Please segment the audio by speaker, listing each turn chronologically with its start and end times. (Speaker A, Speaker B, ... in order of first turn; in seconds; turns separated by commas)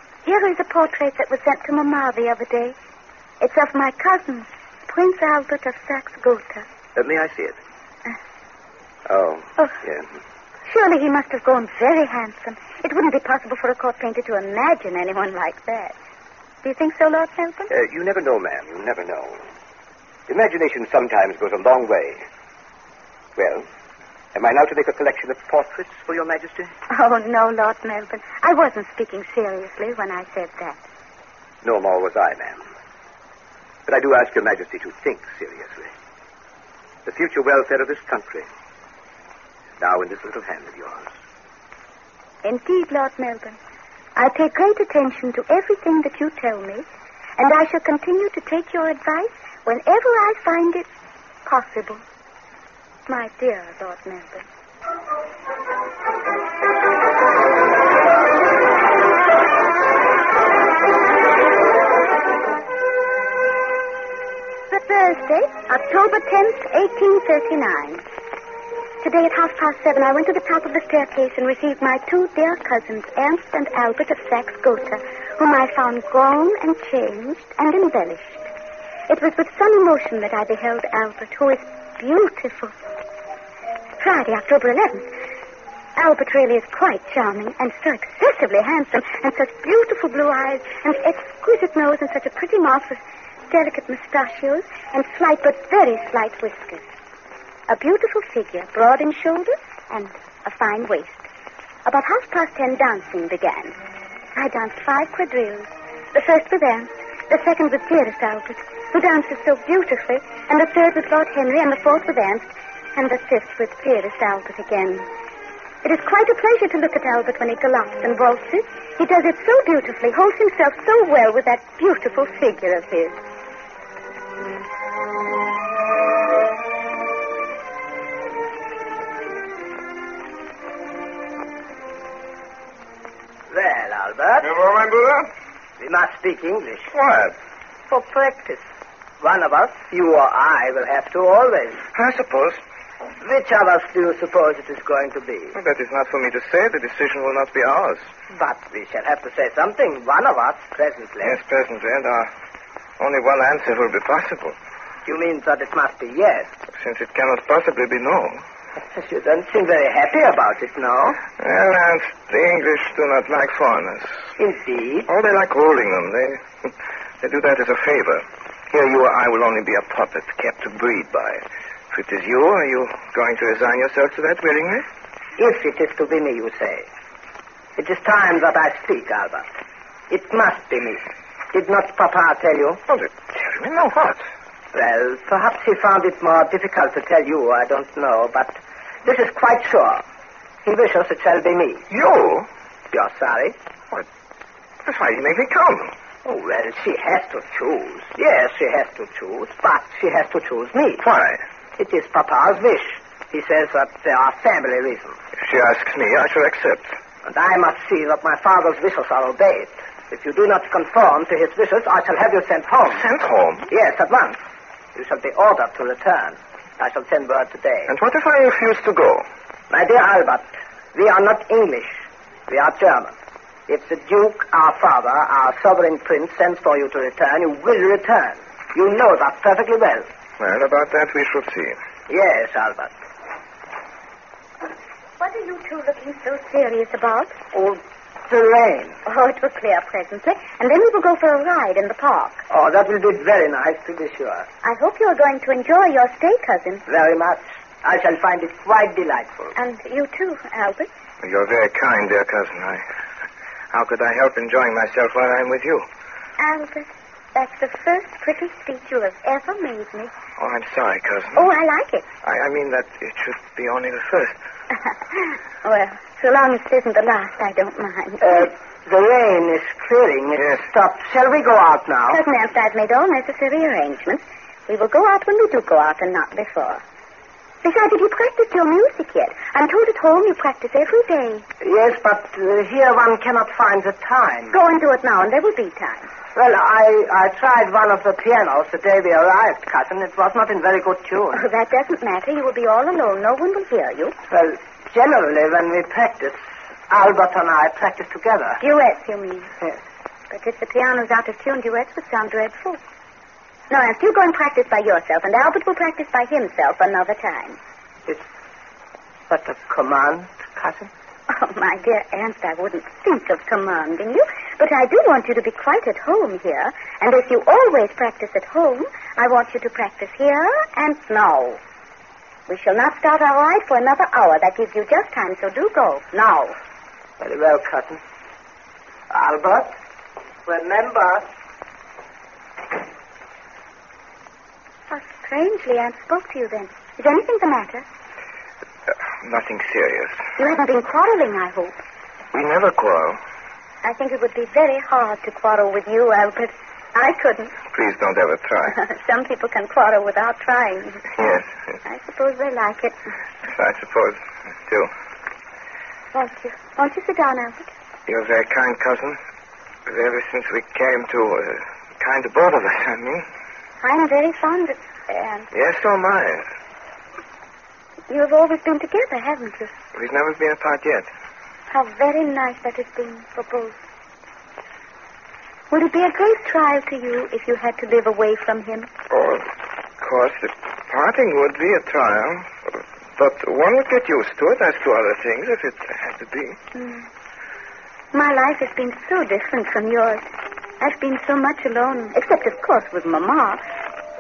Speaker A: 0.2-2.8, Speaker A: 3.4-6.7, Speaker B: 7.0-7.6, Speaker B: 9.1-10.1, Speaker A: 10.7-15.9, Speaker A: 16.6-17.7, Speaker B: 17.7-19.4, Speaker B: 20.3-22.2, Speaker B: 23.4-23.6, Speaker B: 24.4-26.7, Speaker A: 26.9-30.8, Speaker B: 31.6-32.6, Speaker B: 33.9-35.9, Speaker B: 37.1-38.5, Speaker B: 39.8-41.1, Speaker A: 42.4-43.6, Speaker A: 44.2-46.9, Speaker A: 47.4-50.9, Speaker A: 51.5-52.0, Speaker A: 53.1-54.5, Speaker A: 64.7-68.0, Speaker A: 69.0-78.5, Speaker A: 79.1-82.7, Speaker A: 84.0-85.1, Speaker A: 86.0-96.8, Speaker A: 97.7-101.2, Speaker A: 101.8-103.7, Speaker A: 104.3-115.0, Speaker A: 115.8-123.2, Speaker C: 133.5-134.5, Speaker D: 134.4-135.3, Speaker C: 135.8-136.9, Speaker D: 136.9-137.3, Speaker C: 137.9-138.6, Speaker C: 139.2-141.8, Speaker D: 141.9-142.6, Speaker C: 143.2-145.6, Speaker D: 145.5-148.1, Speaker C: 148.3-151.4, Speaker D: 151.2-152.3, Speaker D: 153.0-154.6, Speaker C: 155.1-156.5, Speaker D: 156.7-158.4, Speaker C: 158.9-161.2, Speaker D: 161.4-164.2, Speaker C: 164.4-165.1, Speaker D: 165.1-174.9, Speaker C: 175.4-176.9, Speaker C: 177.8-179.5, Speaker C: 180.1-182.8, Speaker D: 182.9-184.2, Speaker C: 184.7-190.0, Speaker C: 190.6-191.8, Speaker D: 191.9-192.5, Speaker C: 192.9-193.6, Speaker D: 194.8-195.9, Speaker C: 196.2-201.0, Speaker D: 201.0-201.4, Speaker C: 201.8-205.2, Speaker D: 205.4-207.0, Speaker C: 207.2-213.1, Speaker D: 212.9-213.7, Speaker C: 213.7-214.4, Speaker C: 214.9-217.9, Speaker D: 217.9-219.3, Speaker C: 219.7-223.1, Speaker C: 223.7-230.1, Speaker D: 230.4-231.8, Speaker C: 232.1-232.9, Speaker A: 235.2-237.4, Speaker C: 237.5-239.0, Speaker A: 239.1-242.4, Speaker C: 242.5-244.5, Speaker A: 244.6-246.8, Speaker C: 246.9-249.5, Speaker A: 249.6-250.9, Speaker D: 251.2-252.8, Speaker D: 253.7-255.9, Speaker A: 256.4-260.1, Speaker D: 260.4-261.5, Speaker A: 261.4-262.1, Speaker D: 262.2-264.4, Speaker A: 265.1-268.5, Speaker C: 268.2-272.2, Speaker D: 270.4-270.7, Speaker A: 272.1-276.8, Speaker A: 277.6-281.5, Speaker C: 281.6-284.5, Speaker A: 284.5-286.1, Speaker C: 286.4-291.4, Speaker A: 291.3-294.1, Speaker C: 294.3-296.4, Speaker C: 296.9-298.6, Speaker A: 298.6-299.5, Speaker A: 300.3-302.8, Speaker A: 303.7-307.6, Speaker C: 309.3-310.9, Speaker A: 311.3-321.6, Speaker A: 322.5-326.6, Speaker C: 327.2-328.0, Speaker C: 329.1-329.7, Speaker C: 330.5-331.2, Speaker A: 334.9-337.9, Speaker D: 339.2-340.2, Speaker A: 340.4-341.8, Speaker D: 342.3-343.2, Speaker A: 343.8-347.6, Speaker D: 347.7-348.8, Speaker A: 348.7-351.1, Speaker D: 351.1-351.5, Speaker A: 351.9-353.0, Speaker D: 353.5-354.9, Speaker A: 356.1-357.7, Speaker D: 358.1-359.2, Speaker D: 359.9-363.2, Speaker A: 363.8-365.5, Speaker D: 365.5-366.4, Speaker A: 368.1-369.7, Speaker D: 369.9-371.1, Speaker A: 371.7-373.8, Speaker A: 375.7-378.9, Speaker D: 379.1-379.5, Speaker D: 380.0-386.6, Speaker A: 386.8-387.1, Speaker A: 388.1-390.2, Speaker A: 390.8-393.6